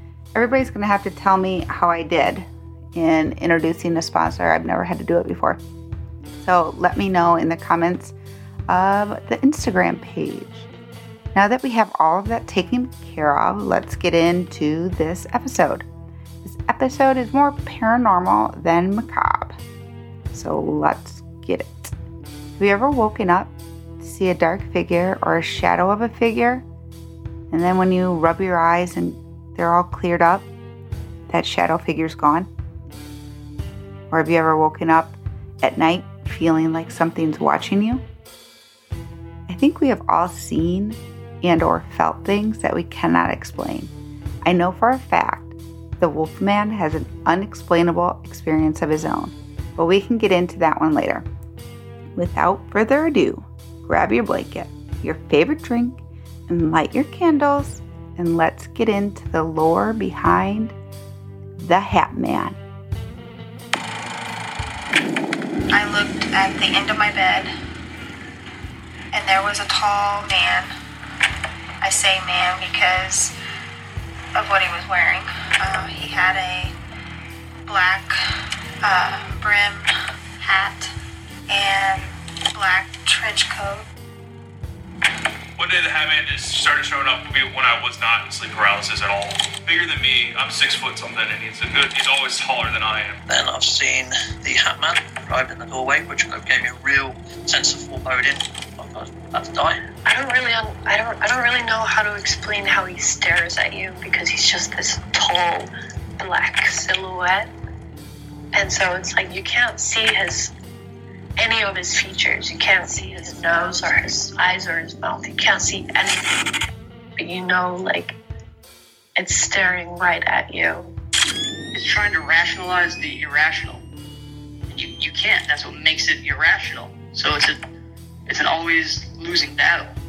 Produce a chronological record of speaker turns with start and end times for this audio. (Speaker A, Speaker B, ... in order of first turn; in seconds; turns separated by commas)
Speaker A: 0.3-5.6, Speaker A: 6.4-8.1, Speaker A: 8.7-10.7, Speaker A: 11.3-15.8, Speaker A: 16.4-19.6, Speaker A: 20.3-21.9, Speaker A: 22.6-26.6, Speaker A: 27.5-30.5, Speaker A: 31.3-32.5, Speaker A: 34.1-38.0, Speaker A: 39.5-43.9, Speaker A: 44.4-51.3, Speaker A: 52.1-60.8, Speaker A: 61.6-62.6, Speaker B: 65.7-67.5, Speaker B: 69.1-70.7, Speaker B: 71.8-73.3, Speaker B: 74.3-76.7, Speaker B: 77.7-78.2, Speaker B: 78.8-80.9, Speaker B: 81.5-83.9, Speaker C: 85.6-93.2, Speaker D: 93.3-99.8, Speaker E: 100.0-107.5, Speaker E: 108.5-110.5, Speaker E: 111.4-116.2, Speaker E: 117.2-118.2, Speaker E: 119.1-120.9, Speaker F: 121.7-123.8, Speaker F: 124.7-127.6, Speaker F: 128.3-129.9